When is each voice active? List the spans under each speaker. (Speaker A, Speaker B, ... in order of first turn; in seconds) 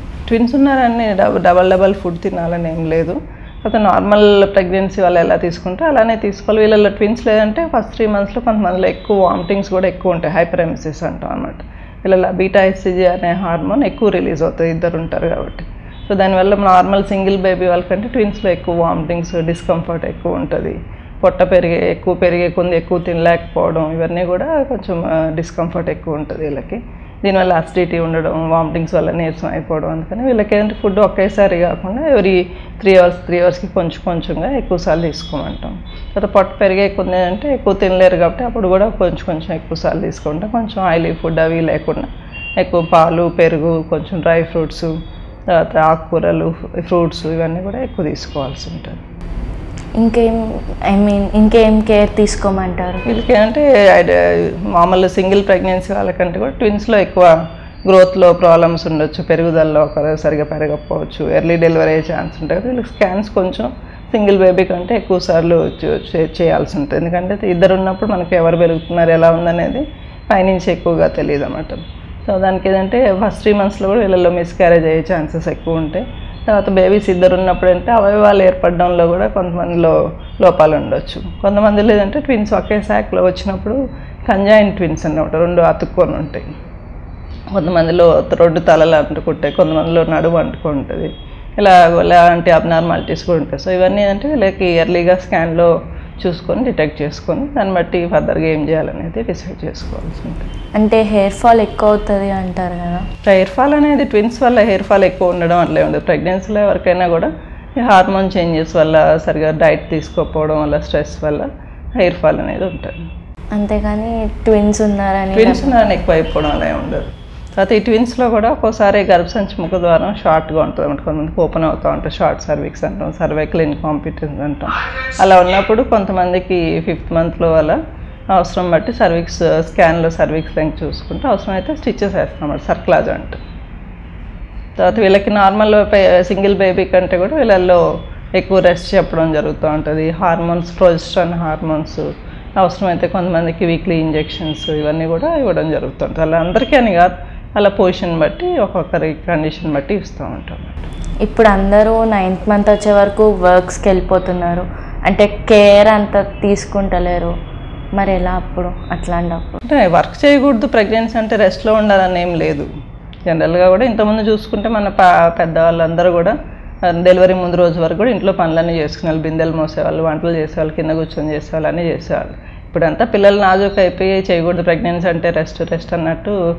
Speaker A: 0.3-44.9, 45.5-49.0, 53.1-57.3, 57.9-86.5, 87.5-100.5, 103.2-113.0, 115.3-127.8, 128.3-133.4, 134.8-137.8, 138.4-142.1, 142.6-150.9, 159.7-162.7, 163.3-166.3, 166.8-176.4
Speaker B: 50.0-53.0, 100.8-103.1, 113.5-115.8, 151.2-157.3, 158.0-159.6